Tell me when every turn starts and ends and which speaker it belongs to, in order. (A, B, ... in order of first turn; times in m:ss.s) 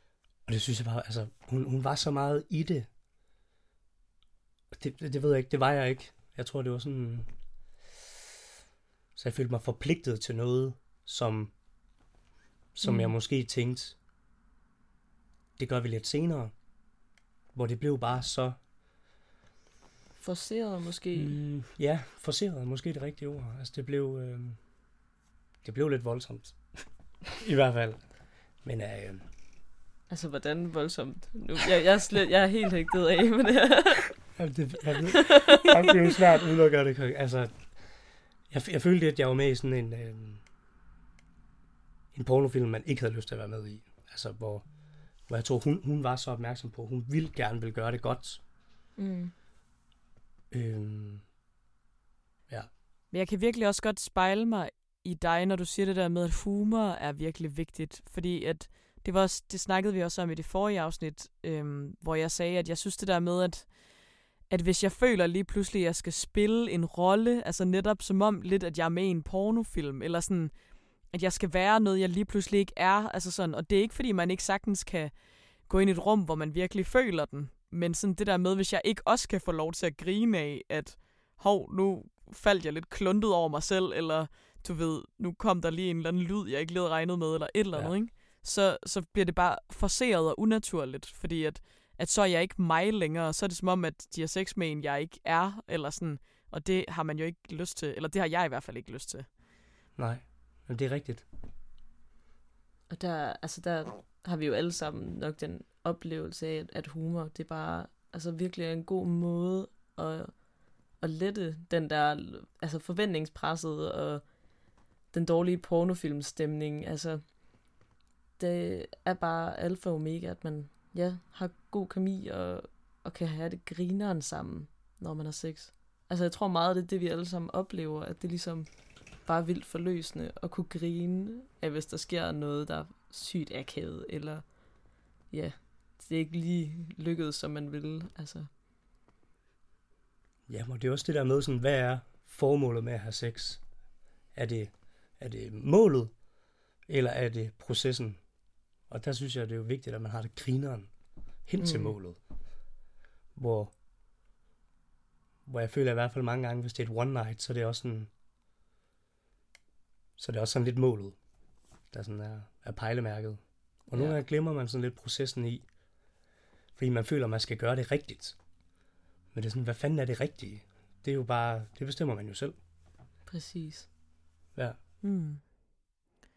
0:00.4-0:02.9 A
0:04.7-0:07.3 A
0:09.1-0:11.5 A
0:12.7-0:14.0 A
0:12.8-0:13.1 B
0:15.6-0:16.5 A
0:17.5-0:18.6 A
0:20.2-0:21.4 B
0:21.1-0:24.6 A
0:25.6-0:29.2 A
0:30.1-0:34.4 B
0:34.3-0:40.4 A
0:35.1-0:35.9 B
0:42.1-0:48.4 A
0:49.0-0:49.3 B
0:50.5-0:51.2 A
0:53.1-1:39.3 C
1:40.0-1:41.2 A
1:42.9-1:54.5 B
1:55.0-1:57.7 B
1:58.4-2:18.5 B
2:20.5-2:23.6 A
2:24.3-2:26.2 A
2:26.9-2:28.2 A
2:28.9-2:30.9 A
2:31.4-2:32.2 A
2:31.6-2:32.0 B
2:33.4-2:33.7 A
2:35.4-2:38.1 A
2:40.2-2:41.2 A
2:41.9-2:45.6 A
2:46.8-2:48.4 A
2:49.3-2:52.6 A
2:53.2-2:53.9 B
2:55.0-2:55.4 C